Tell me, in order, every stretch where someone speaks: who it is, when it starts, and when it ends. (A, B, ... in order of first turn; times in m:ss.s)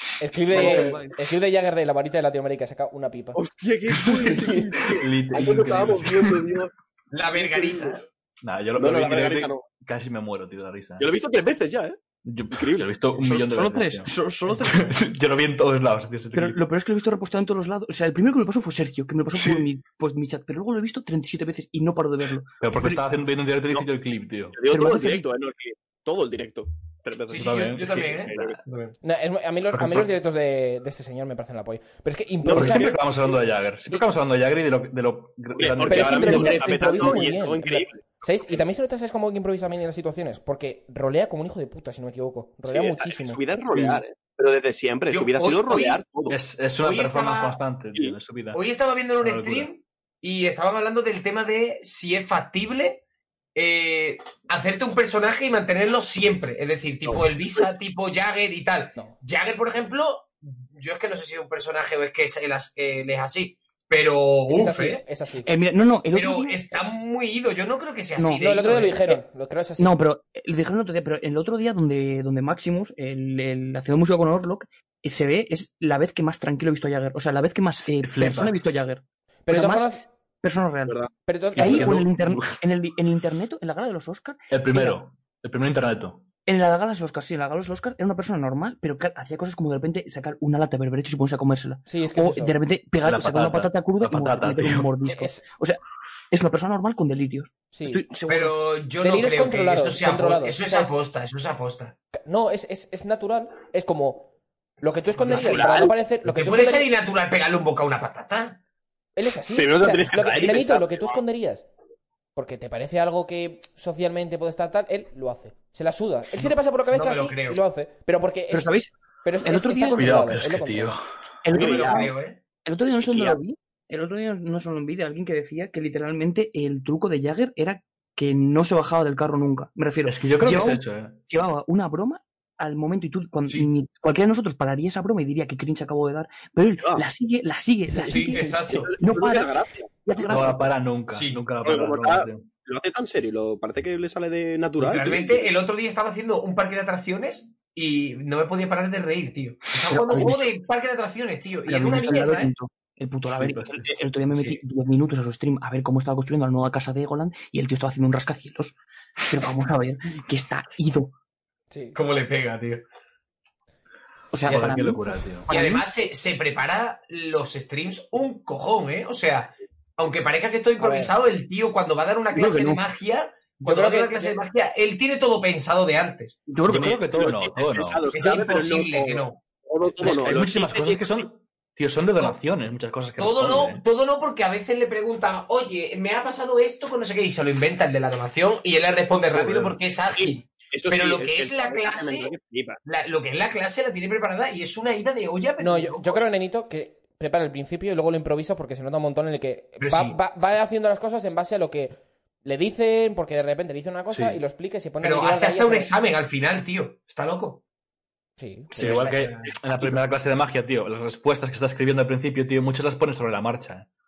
0:00.2-0:03.4 A
0:00.5-0:01.2 B
0:00.5-0:00.9 C
0:03.4-0:06.7 D
0:04.8-0:06.4 C
0:07.1-0:08.0 E
0:07.3-0:08.0 D
0:08.4-0:11.1 C
0:08.8-0:09.6 D
0:11.0-0:12.0 D
0:12.2-0:16.6 C
0:12.5-0:12.9 D
0:13.2-0:14.9 B
0:14.1-0:14.8 D
0:16.3-0:23.0 B
0:19.4-0:19.7 C
0:22.6-0:24.6 C
0:24.5-0:28.6 D
0:24.7-0:25.3 B
0:27.3-0:28.9 E
0:27.4-0:28.0 C
0:29.0-0:33.0 A
0:29.7-0:30.1 C
0:32.4-0:33.2 D
0:32.5-0:37.2 C
0:35.6-0:38.6 D
0:35.8-0:43.4 A
0:42.7-0:46.4 D
0:45.1-0:46.0 E
0:46.3-0:48.6 C
0:46.8-0:47.6 E
0:48.5-0:53.0 E
0:49.2-0:49.7 C
0:53.6-1:05.0 E
0:57.0-0:57.7 D
1:04.5-1:05.5 A
1:05.4-1:06.8 B
1:06.1-1:09.2 E
1:08.2-1:08.4 B
1:08.4-1:09.9 A
1:09.8-1:25.0 B
1:17.8-1:18.6 C
1:19.5-1:20.0 A
1:21.3-1:21.9 A
1:21.6-1:22.6 C
1:24.5-1:26.2 C
1:26.5-1:35.8 B
1:31.9-1:32.6 A
1:33.0-1:34.9 C
1:35.1-1:35.4 A
1:36.3-1:38.6 B
1:37.7-1:38.0 A
1:38.3-1:42.0 E
1:39.0-1:41.0 A
1:42.2-1:44.3 A
1:44.8-1:46.9 A
1:45.2-1:45.7 E
1:45.3-1:45.9 D
1:46.2-1:48.6 E
1:49.2-1:51.7 A
1:49.5-1:51.2 D
1:52.4-2:01.0 A
1:56.9-1:57.6 E
1:58.5-1:58.9 B
1:59.4-2:00.2 B
2:00.0-2:01.1 C
2:01.4-2:02.1 B
2:01.5-2:02.4 E
2:01.5-2:02.1 D
2:02.6-2:20.7 B
2:03.1-2:03.4 D
2:10.0-2:11.2 C
2:16.8-2:17.0 D
2:18.1-2:18.9 E
2:18.6-2:20.5 D
2:20.3-2:22.5 C
2:21.1-2:21.4 E
2:21.6-2:25.5 D
2:24.8-2:32.5 E
2:29.9-2:30.5 B
2:31.7-2:41.1 B
2:33.4-2:33.9 C
2:41.7-2:42.0 A
2:42.0-2:42.8 E
2:44.3-2:45.9 B
2:44.5-2:45.5 C
2:45.5-2:56.4 E
2:50.8-2:51.1 A
2:52.3-2:52.8 B
2:53.6-2:54.4 A
2:56.5-2:57.0 B
2:56.6-2:58.1 C
2:56.8-3:01.3 D
2:58.1-2:59.4 E
3:00.0-3:03.8 C
3:03.2-3:12.3 E
3:09.3-3:09.8 C
3:10.2-3:12.8 D
3:12.8-3:16.2 E
3:15.6-3:25.9 A
3:19.8-3:20.2 E
3:24.1-3:24.4 C
3:25.0-3:27.6 E
3:28.4-3:29.2 A
3:28.7-3:33.9 C
3:28.8-3:30.0 E